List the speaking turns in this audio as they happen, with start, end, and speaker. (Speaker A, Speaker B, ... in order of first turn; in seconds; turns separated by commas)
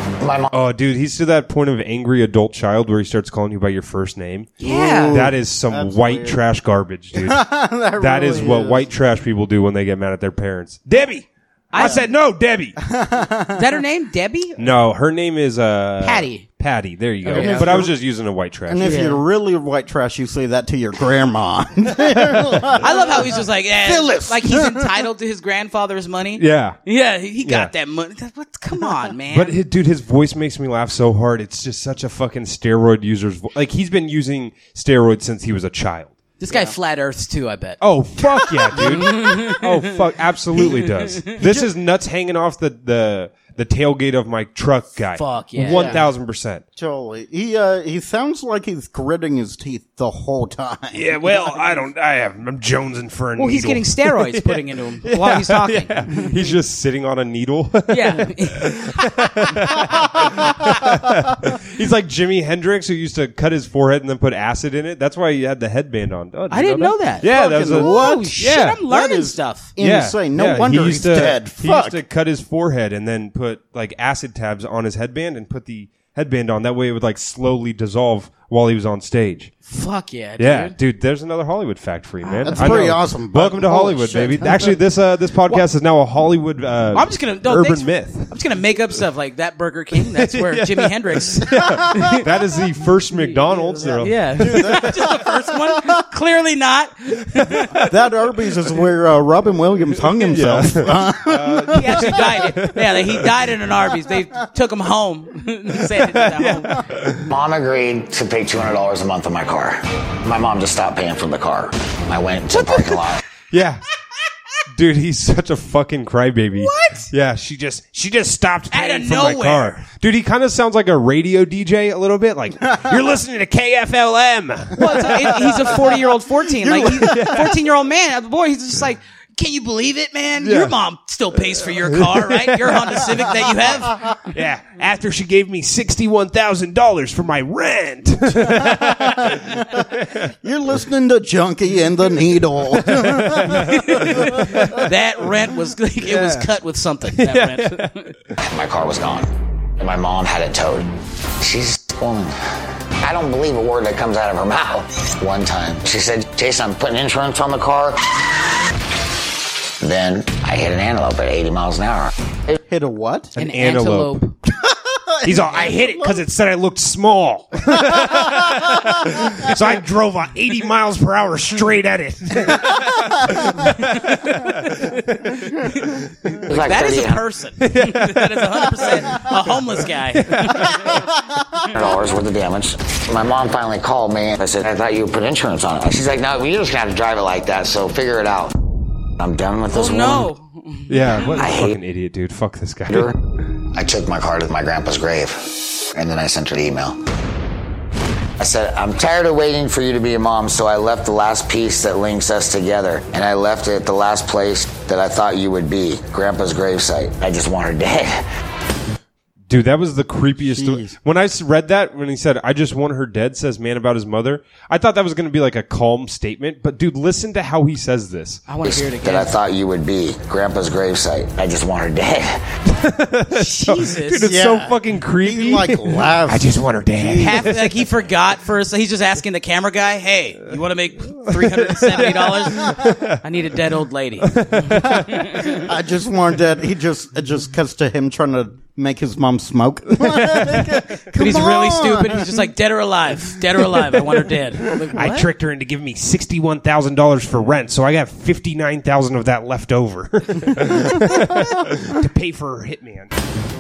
Speaker A: 0.2-0.5, Speaker B: 0.5-12.8, Speaker C: 4.6-5.2, Speaker D: 4.6-6.4, Speaker D: 7.1-8.9, Speaker C: 11.7-12.0, Speaker D: 11.8-12.1, Speaker D: 12.8-13.6, Speaker C: 13.5-14.6, Speaker B: 14.6-19.0, Speaker C: 16.0-16.4, Speaker D: 17.2-18.0, Speaker C: 17.3-17.9, Speaker D: 18.7-24.9, Speaker C: 18.8-19.2, Speaker C: 22.8-29.6, Speaker B: 26.4-26.8, Speaker B: 27.4-27.7, Speaker B: 29.3-36.1, Speaker C: 36.4-37.8, Speaker D: 36.5-36.8, Speaker B: 37.8-46.6, Speaker C: 38.7-39.8, Speaker C: 40.6-41.7, Speaker C: 45.2-46.0, Speaker D: 45.6-46.0, Speaker D: 46.8-51.1, Speaker B: 50.9-68.8, Speaker C: 51.3-51.8, Speaker C: 53.4-56.0, Speaker C: 57.9-59.7, Speaker C: 66.5-69.7, Speaker D: 67.2-72.0, Speaker B: 69.8-79.5, Speaker C: 79.7-80.8, Speaker B: 80.4-88.3, Speaker D: 82.4-84.8, Speaker C: 82.5-82.8, Speaker C: 86.9-92.3, Speaker B: 90.2-94.8, Speaker C: 93.2-97.7, Speaker D: 93.8-95.9, Speaker B: 97.5-98.0, Speaker D: 97.8-102.2, Speaker B: 100.3-102.8, Speaker C: 101.7-106.8, Speaker B: 106.0-107.2, Speaker A: 107.3-113.2, Speaker B: 113.5-113.8, Speaker B: 114.7-125.6, Speaker C: 116.6-117.1, Speaker C: 118.7-119.8, Speaker C: 124.8-133.9, Speaker D: 126.6-127.3, Speaker B: 126.9-127.5, Speaker B: 130.4-130.8, Speaker B: 131.7-133.2, Speaker B: 133.8-140.3, Speaker D: 138.4-139.9, Speaker D: 140.4-144.6, Speaker B: 142.8-144.9, Speaker C: 143.7-148.1, Speaker B: 146.0-146.5, Speaker B: 147.1-148.0, Speaker A: 148.4-152.4, Speaker A: 153.0-158.2, Speaker A: 159.8-162.6, Speaker D: 162.7-163.3, Speaker B: 163.4-164.2, Speaker C: 163.4-164.4, Speaker D: 164.7-166.2, Speaker B: 165.2-176.4, Speaker D: 167.7-169.3, Speaker C: 173.9-174.5, Speaker A: 176.5-177.2, Speaker C: 176.5-180.9, Speaker B: 177.6-179.2, Speaker B: 180.3-180.7, Speaker A: 181.7-188.6, Speaker A: 189.2-190.3, Speaker C: 189.7-191.4, Speaker B: 190.9-193.1, Speaker A: 191.4-191.8, Speaker A: 192.9-197.0, Speaker A: 198.4-208.3, Speaker B: 209.5-218.5, Speaker D: 210.4-210.9, Speaker C: 218.5-219.3, Speaker A: 218.6-222.5, Speaker B: 222.7-227.7, Speaker C: 223.3-224.2, Speaker D: 224.3-227.5, Speaker C: 227.2-235.6, Speaker B: 231.2-233.2, Speaker B: 234.3-235.2, Speaker D: 234.8-242.5, Speaker B: 240.1-240.8, Speaker C: 241.2-245.3, Speaker B: 244.9-253.1